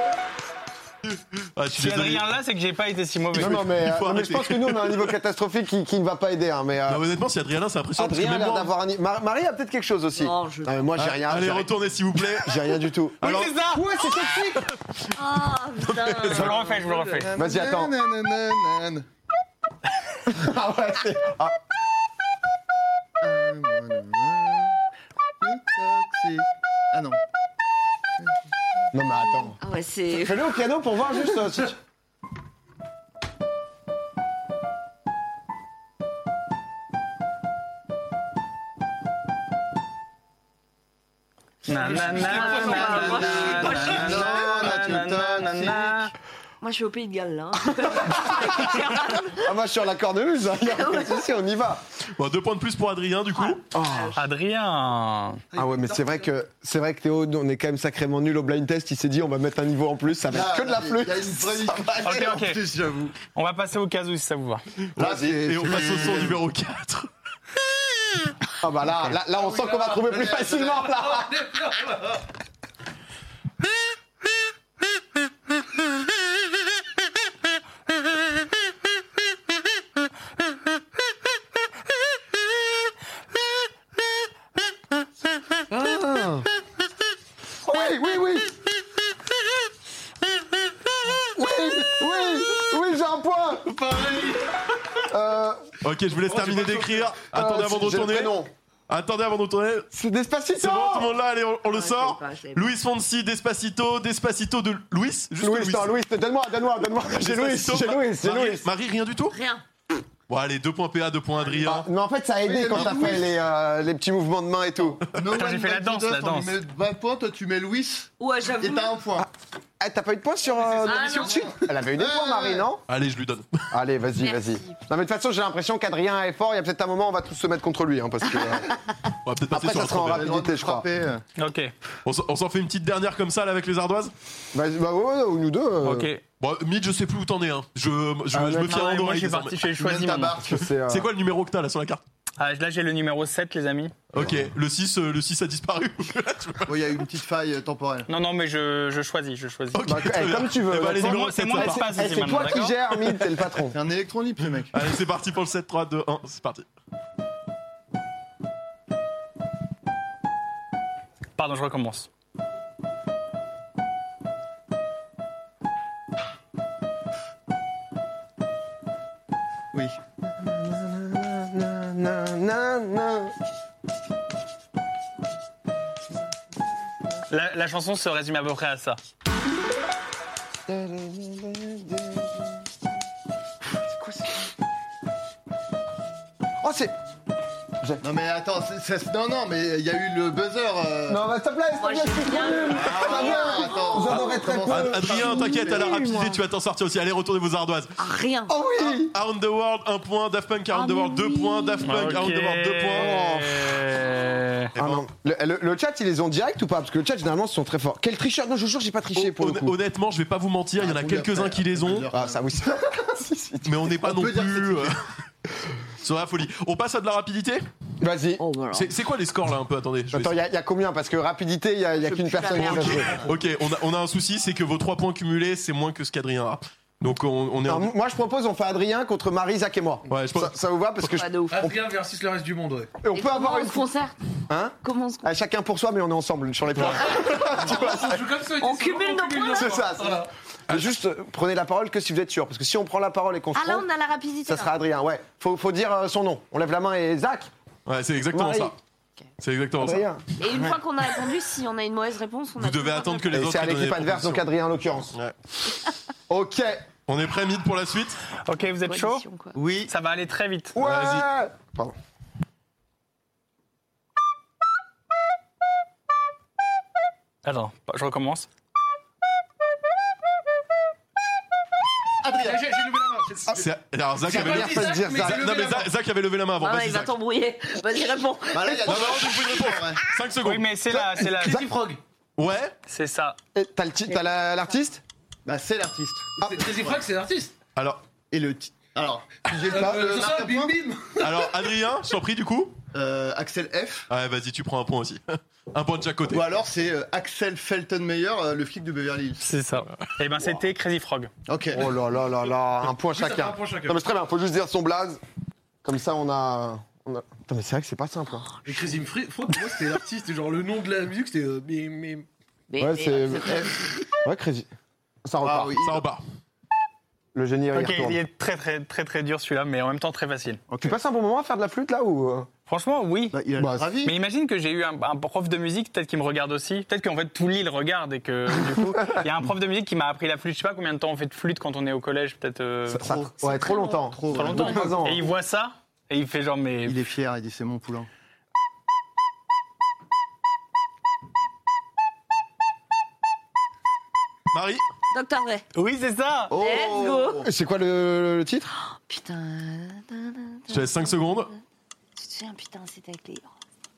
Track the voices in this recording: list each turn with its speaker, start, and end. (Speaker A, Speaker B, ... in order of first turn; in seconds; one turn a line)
Speaker A: 1.5-2.2
Speaker B: 1.7-3.6
Speaker C: 3.3-7.0
Speaker A: 3.4-5.0
Speaker A: 6.9-8.7
Speaker C: 8.0-14.7
Speaker D: 10.2-10.9
Speaker A: 10.9-13.4
Speaker B: 13.2-14.1
Speaker D: 15.1-16.8
Speaker A: 15.8-16.5
Speaker B: 16.2-17.3
Speaker E: 16.8-19.1
Speaker C: 17.3-17.9
Speaker C: 20.3-21.6
Speaker E: 23.2-24.8
Speaker E: 25.4-27.2
Speaker C: 28.9-29.6
Speaker D: 29.6-30.4
Speaker C: 30.1-31.8
Speaker B: 41.6-46.1
Speaker F: 41.7-44.1
Speaker D: 42.2-44.6
Speaker E: 43.8-46.1
Speaker D: 46.6-49.5
Speaker C: 48.1-48.8
Speaker C: 49.4-51.8
Speaker D: 50.6-51.3
Speaker A: 52.1-53.6
Speaker D: 53.4-54.2
Speaker C: 53.7-54.2
Speaker B: 54.1-55.4
Speaker F: 55.5-56.3
Speaker C: 55.5-62.3
Speaker E: 60.3-63.1
Speaker B: 62.0-62.6
Speaker B: 63.3-64.6
Speaker C: 65.0-65.4
Speaker E: 65.0-66.4
Speaker A: 65.0-67.1
Speaker C: 68.6-71.5
Speaker F: 69.3-70.1
Speaker E: 70.0-70.8
Speaker F: 71.0-72.2
Speaker C: 85.7-86.5
Speaker C: 87.6-88.5
Speaker C: 91.3-93.7
Speaker F: 93.6-94.6
Speaker C: 95.1-95.6
Speaker A: 95.8-99.9
Speaker C: 96.3-98.5
Speaker F: 96.6-97.0
Speaker C: 99.9-101.1
Speaker A: 100.6-105.9
Speaker D: 101.6-102.7
Speaker C: 105.4-108.7
Speaker A: 107.1-109.4
Speaker D: 109.3-109.6
Speaker A: 110.3-111.9
Speaker C: 111.6-115.0
Speaker E: 112.4-113.3
Speaker A: 112.7-113.2
Speaker E: 115.1-119.3
Speaker B: 115.3-116.6
Speaker D: 118.2-119.0
Speaker C: 119.2-122.8
Speaker E: 120.5-122.7
Speaker D: 120.8-121.5
Speaker A: 122.9-123.7
Speaker C: 123.7-128.7
Speaker D: 124.2-124.8
Speaker A: 129.2-130.3
Speaker C: 129.5-130.8
Speaker E: 130.0-131.2
Speaker B: 131.4-131.7
Speaker A: 132.0-134.1
Speaker C: 134.5-136.1
Speaker B: 135.8-136.2
Speaker A: 136.4-139.6
Speaker C: 138.3-138.8
Speaker B: 138.6-140.4
Speaker E: 139.7-140.6
Speaker C: 140.4-141.1
Speaker A: 140.6-142.0
Speaker B: 142.4-143.9
Speaker A: 144.1-147.0
Speaker E: 146.7-148.1
Speaker B: 148.1-149.9
Speaker A: 149.7-152.2
Speaker C: 149.8-153.8
Speaker B: 150.9-152.8
Speaker E: 153.7-154.7
Speaker A: 154.7-156.7
Speaker B: 161.4-162.1
Speaker C: 170.2-173.3
Speaker B: 177.3-179.0
Speaker C: 180.7-182.4
Speaker C: 183.9-184.2
Speaker C: 186.6-186.9
Speaker E: 188.0-191.2
Speaker C: 191.1-195.3
Speaker D: 191.8-194.4
Speaker E: 192.7-196.0
Speaker A: 194.7-198.0
Speaker D: 195.1-196.4
Speaker D: 198.0-198.5
Speaker C: 198.5-199.1
Speaker A: 198.8-203.3
Speaker D: 200.7-202.2
Speaker B: 201.8-204.7
Speaker C: 202.9-203.7
Speaker C: 204.7-209.8
Speaker A: 204.8-205.0
Speaker A: 209.1-212.1
Speaker E: 210.8-212.5
Speaker C: 212.1-214.0
Speaker A: 213.6-215.0
Speaker E: 214.0-215.0
Speaker A: 216.0-217.6
Speaker C: 218.0-218.4
Speaker D: 218.4-218.9
Speaker A: 218.7-220.4
Speaker C: 220.1-223.3
Speaker D: 222.0-223.3
Speaker A: 222.5-227.9
Speaker E: 222.8-223.3
Speaker C: 227.7-231.3
Speaker A: 230.1-230.5
Speaker D: 231.0-231.6
Speaker F: 231.5-232.9
Speaker C: 233.0-233.8
Speaker D: 233.1-234.2
Speaker C: 234.5-238.3
Speaker D: 234.8-235.3
Speaker A: 236.8-237.1
Speaker F: 237.2-240.3
Speaker D: 238.6-240.0
Speaker C: 239.5-243.9
Speaker D: 243.5-244.7
Speaker C: 244.4-247.5
Speaker A: 247.8-248.8
Speaker C: 248.3-248.7
Speaker A: 249.4-250.1
Speaker C: 249.8-250.2
Speaker D: 250.4-253.4
Speaker E: 250.5-250.8
Speaker A: 252.6-254.5
Speaker C: 253.3-255.2
Speaker C: 256.3-256.8
Speaker A: 257.1-258.2
Speaker B: 258.4-259.3
Speaker D: 258.8-259.6
Speaker E: 259.5-259.9
Speaker B: 259.9-260.8
Speaker C: 260.7-261.9
Speaker A: 260.8-261.2
Speaker B: 267.4-268.5
Speaker E: 272.2-272.6
Speaker F: 272.3-273.6
Speaker A: 273.5-277.1
Speaker F: 274.2-275.9
Speaker C: 274.2-275.7
Speaker D: 276.6-279.2
Speaker E: 278.5-280.0
Speaker A: 278.8-280.7
Speaker B: 280.4-281.7
Speaker F: 280.9-282.0
Speaker C: 281.4-281.7
Speaker A: 282.4-282.8
Speaker B: 282.9-283.4
Speaker C: 283.5-285.0
Speaker E: 285.4-287.0
Speaker F: 286.4-287.5
Speaker A: 287.8-288.0
Speaker E: 288.3-290.7
Speaker F: 289.6-291.5
Speaker A: 291.2-292.8
Speaker E: 292.9-294.1
Speaker A: 294.1-296.5
Speaker E: 296.3-299.4
Speaker B: 299.4-301.3
Speaker E: 301.5-301.9
Speaker C: 301.7-305.2
Speaker F: 302.9-304.0
Speaker C: 305.8-308.5
Speaker F: 308.6-312.3
Speaker D: 312.7-313.9
Speaker C: 312.8-313.7
Speaker C: 314.2-314.7
Speaker C: 315.2-315.7
Speaker E: 315.4-316.0
Speaker A: 315.8-316.2
Speaker C: 317.3-318.2
Speaker B: 317.7-320.6
Speaker E: 320.7-320.9
Speaker C: 320.8-322.5
Speaker B: 322.7-323.4
Speaker E: 323.3-324.1
Speaker C: 323.6-323.9
Speaker B: 324.0-333.1
Speaker C: 332.9-335.3
Speaker E: 332.9-335.0
Speaker D: 333.5-334.1
Speaker B: 334.3-337.0
Speaker E: 336.8-338.1
Speaker A: 344.5-344.8
Speaker D: 345.1-345.6
Speaker B: 345.7-346.5
Speaker E: 346.5-347.5
Speaker D: 346.5-347.5
Speaker C: 347.4-348.7
Speaker D: 349.0-351.6
Speaker A: 350.7-351.5
Speaker D: 352.1-353.5